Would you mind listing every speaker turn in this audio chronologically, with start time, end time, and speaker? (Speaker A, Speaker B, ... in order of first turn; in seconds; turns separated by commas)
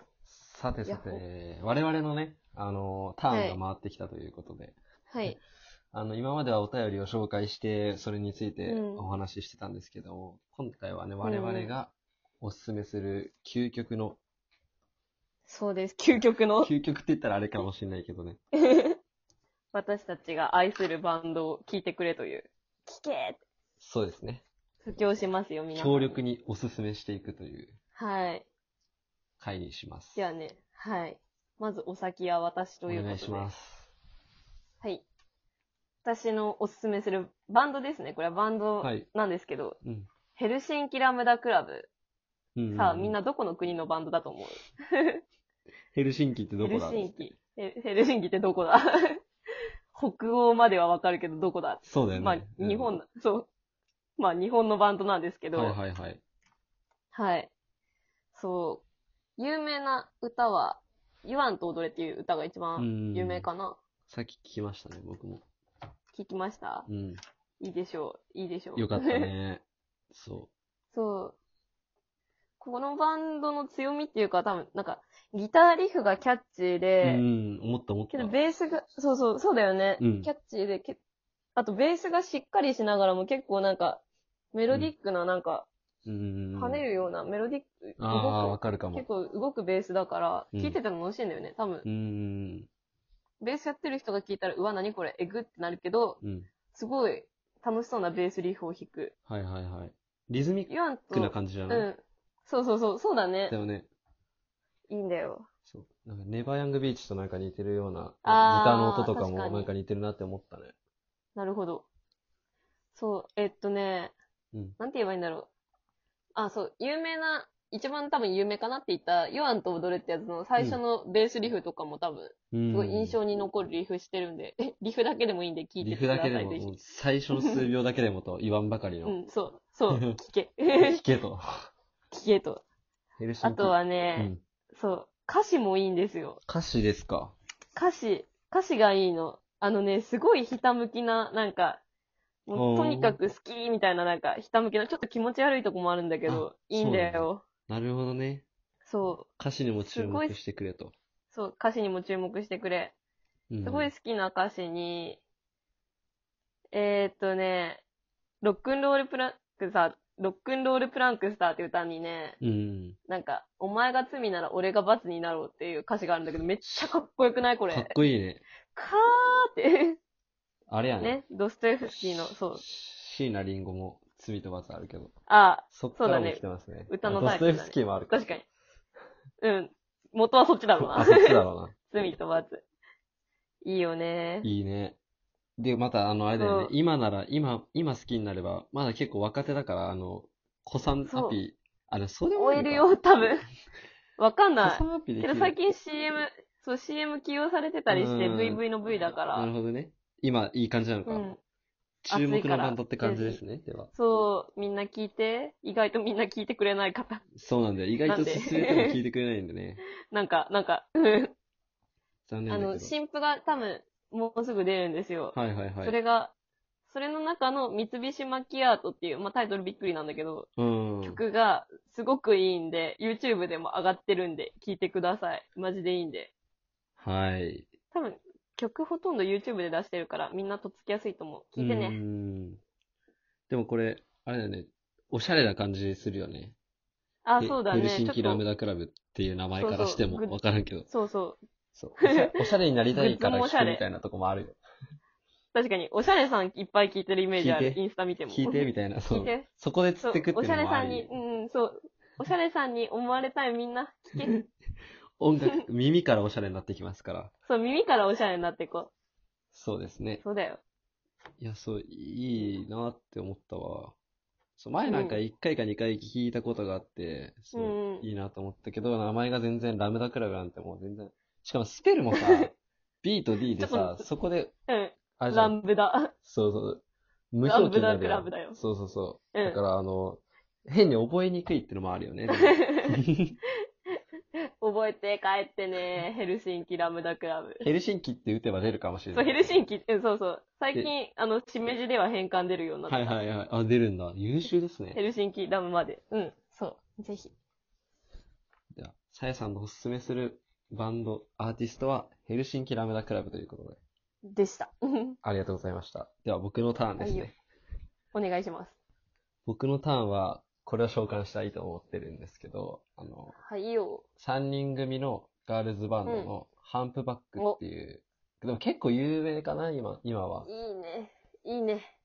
Speaker A: 0.3-4.8, Speaker B: 0.9-1.2, Speaker B: 3.3-3.6, Speaker B: 5.1-5.4, Speaker A: 5.9-14.2, Speaker B: 8.7-9.1, Speaker B: 11.2-11.7, Speaker B: 15.5-16.7, Speaker A: 16.6-18.4, Speaker B: 18.6-19.0, Speaker B: 19.7-23.4, Speaker A: 23.8-24.4, Speaker B: 24.8-26.2, Speaker A: 25.7-27.8, Speaker B: 28.0-28.5, Speaker A: 29.4-30.3, Speaker B: 30.2-33.5, Speaker A: 32.9-33.9, Speaker B: 36.0-39.8, Speaker A: 39.8-40.1, Speaker B: 40.4-41.9, Speaker A: 42.6-43.2, Speaker B: 42.7-45.2, Speaker A: 45.9-47.3, Speaker B: 46.6-49.2, Speaker B: 49.9-53.5, Speaker A: 51.9-53.0, Speaker B: 54.2-55.8, Speaker A: 55.5-56.2, Speaker B: 57.1-57.5, Speaker B: 58.3-58.8, Speaker B: 59.4-63.8, Speaker A: 62.8-63.5, Speaker A: 64.1-65.5, Speaker B: 66.1-66.9, Speaker A: 66.9-67.2, Speaker B: 67.6-69.3, Speaker A: 68.8-70.5, Speaker B: 70.9-71.4, Speaker B: 72.6-77.2, Speaker A: 77.0-78.3, Speaker B: 78.1-81.0, Speaker A: 80.0-80.3, Speaker B: 81.6-84.0, Speaker B: 84.5-85.7, Speaker A: 86.1-86.8, Speaker B: 86.5-91.8, Speaker A: 88.0-89.1, Speaker A: 91.8-92.7, Speaker B: 93.4-96.2, Speaker A: 96.2-96.5, Speaker B: 96.7-99.1, Speaker A: 99.3-101.9, Speaker B: 100.7-103.6, Speaker A: 103.5-103.9, Speaker B: 104.9-105.5, Speaker A: 105.7-110.8, Speaker B: 108.2-109.7, Speaker B: 111.4-111.9, Speaker B: 112.9-114.1, Speaker B: 114.8-115.5, Speaker B: 116.3-126.7, Speaker A: 122.5-123.2, Speaker A: 125.8-129.2, Speaker B: 129.1-131.0, Speaker A: 130.8-131.7, Speaker B: 132.1-132.6, Speaker A: 133.2-134.4, Speaker B: 133.4-136.4, Speaker A: 136.5-137.3, Speaker B: 137.8-141.8, Speaker B: 142.5-147.4, Speaker A: 142.5-143.2, Speaker A: 146.3-148.5, Speaker B: 148.9-149.3, Speaker A: 149.4-150.9, Speaker B: 149.8-150.4, Speaker B: 151.3-152.9, Speaker A: 153.5-153.9, Speaker B: 153.6-155.2, Speaker B: 156.7-157.8, Speaker B: 158.4-162.4, Speaker A: 162.4-163.0, Speaker B: 163.1-167.9, Speaker A: 167.7-168.4, Speaker B: 168.7-170.0, Speaker A: 170.7-171.2, Speaker B: 171.0-172.6, Speaker A: 171.9-175.1, Speaker B: 175.3-178.4, Speaker A: 175.7-178.3, Speaker B: 179.4-181.4, Speaker A: 180.8-181.9, Speaker B: 181.9-182.6, Speaker B: 183.6-184.5, Speaker A: 184.4-185.0, Speaker A: 185.6-192.9, Speaker B: 186.4-186.7, Speaker B: 191.1-191.4, Speaker B: 192.4-193.4, Speaker B: 194.2-199.5, Speaker A: 194.6-195.6, Speaker A: 197.9-198.6, Speaker A: 199.3-201.3, Speaker B: 201.1-201.4, Speaker A: 202.1-203.9, Speaker B: 202.1-203.4, Speaker B: 203.9-207.2, Speaker A: 207.4-209.8, Speaker B: 208.1-209.0, Speaker B: 210.1-211.3, Speaker A: 212.3-212.9, Speaker B: 212.5-216.3, Speaker A: 215.3-216.0, Speaker B: 216.9-220.5, Speaker A: 220.6-221.2, Speaker B: 221.0-226.3, Speaker A: 227.0-227.7, Speaker B: 227.9-232.0, Speaker A: 231.6-232.6, Speaker A: 233.5-236.6, Speaker B: 237.2-238.4, Speaker A: 237.4-240.9, Speaker B: 239.6-240.4, Speaker B: 240.9-241.4, Speaker A: 241.8-244.6, Speaker B: 242.0-242.3, Speaker B: 242.9-243.8, Speaker B: 245.5-249.5, Speaker A: 247.3-251.1, Speaker B: 250.0-254.4, Speaker A: 255.2-257.3, Speaker B: 257.5-258.9, Speaker A: 259.5-260.2, Speaker B: 260.2-260.6, Speaker A: 261.4-264.0, Speaker A: 264.6-274.5, Speaker B: 264.9-265.2, Speaker B: 267.5-268.1, Speaker B: 272.2-272.5, Speaker B: 273.6-274.1, Speaker B: 274.7-276.1, Speaker A: 275.2-275.6, Speaker A: 276.2-283.4, Speaker B: 277.4-278.6, Speaker B: 279.3-279.6, Speaker B: 282.4-283.0, Speaker B: 284.6-287.6, Speaker A: 287.6-289.6, Speaker B: 289.1-293.2, Speaker A: 292.9-295.0, Speaker B: 294.9-297.3, Speaker A: 298.7-303.8, Speaker B: 304.3-305.2, Speaker A: 305.2-307.3, Speaker B: 307.0-307.3, Speaker B: 308.1-308.8, Speaker A: 309.5-313.4, Speaker B: 313.3-314.0, Speaker A: 314.2-320.5, Speaker B: 316.1-316.3, Speaker B: 320.5-321.9